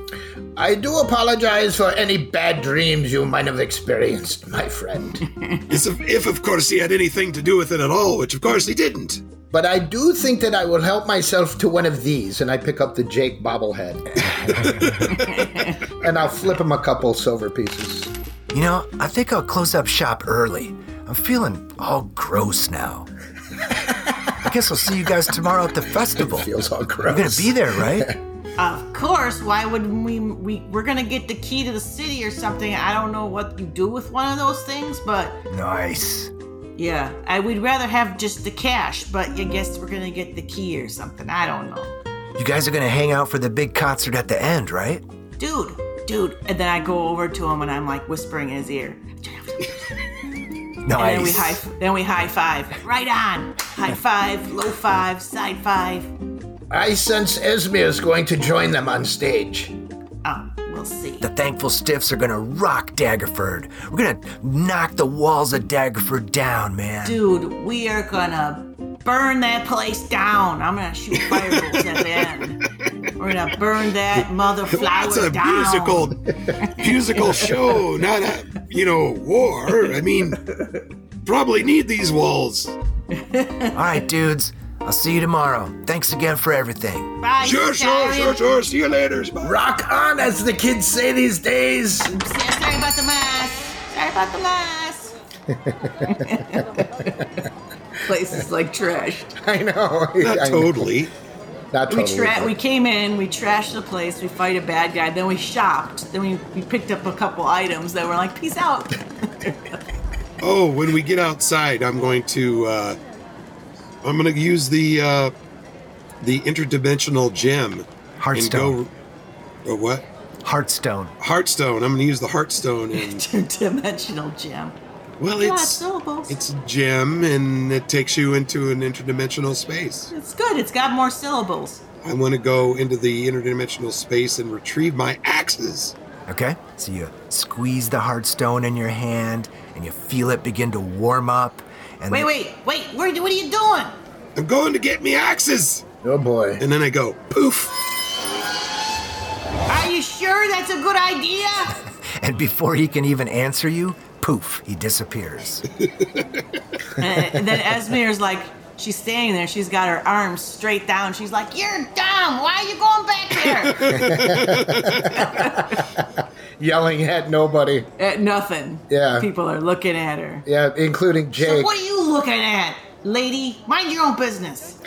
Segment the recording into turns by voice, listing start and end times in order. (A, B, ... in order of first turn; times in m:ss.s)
0:00.6-0:05.3 A
0:05.3-0:05.6 B
0:05.7-0:09.2 C
0:09.5-0:14.7 A
0:14.6-0:15.2 C
0:15.1-0:15.9 B
0:15.9-0:18.1 A
0:18.5-0:23.1 D
0:24.4-0:26.5 D
0:26.2-0:28.2 A
0:27.0-0:28.1 D
0:28.6-0:35.4 B
0:35.5-0:36.3 D
0:36.8-0:41.9 B
0:42.4-0:45.0 D
0:45.4-0:49.8 B
0:50.8-0:51.6 D
0:51.0-0:56.1 B
0:56.7-0:59.8 A
1:00.2-1:01.3 B
1:01.2-1:07.2 D
1:07.0-1:12.6 B
1:11.2-1:12.2 C
1:13.2-1:17.6 B
1:14.2-1:20.4 C
1:21.2-1:22.7 C
1:23.1-1:24.0 B
1:23.7-1:27.2 D
1:27.2-1:28.4 B
1:27.4-1:29.6 C
1:29.4-1:32.1 A
1:32.0-1:35.2 B
1:35.5-1:36.2 A
1:36.1-1:37.3 B
1:38.1-1:39.3 B
1:39.4-1:40.9 A
1:40.2-1:41.1 C
1:41.7-1:42.5 A
1:41.9-1:49.8 B
1:50.4-1:53.0 C
1:54.0-1:55.3 C
1:56.2-1:58.9 C
1:58.2-1:58.8 D
1:59.6-2:00.0 C
2:00.4-2:01.1 D
2:01.2-2:03.2 C
2:02.9-2:04.8 B
2:05.2-2:10.1 C
2:05.4-2:06.4 B
2:10.1-2:11.8 B
2:12.0-2:16.0 C
2:16.3-2:22.3 D
2:22.1-2:24.0 B
2:24.4-2:25.8 C
2:26.0-2:26.6 A
2:26.6-2:27.8 C
2:29.7-2:31.8 B
2:32.2-2:35.6 D
2:35.8-2:36.2 C
2:37.0-2:44.0 B
2:43.5-2:45.2 C
2:43.9-2:47.9 A
2:45.1-2:45.8 B
2:48.0-2:50.4 B
2:48.9-2:49.3 A
2:50.5-2:51.8 A
2:51.4-2:54.8 B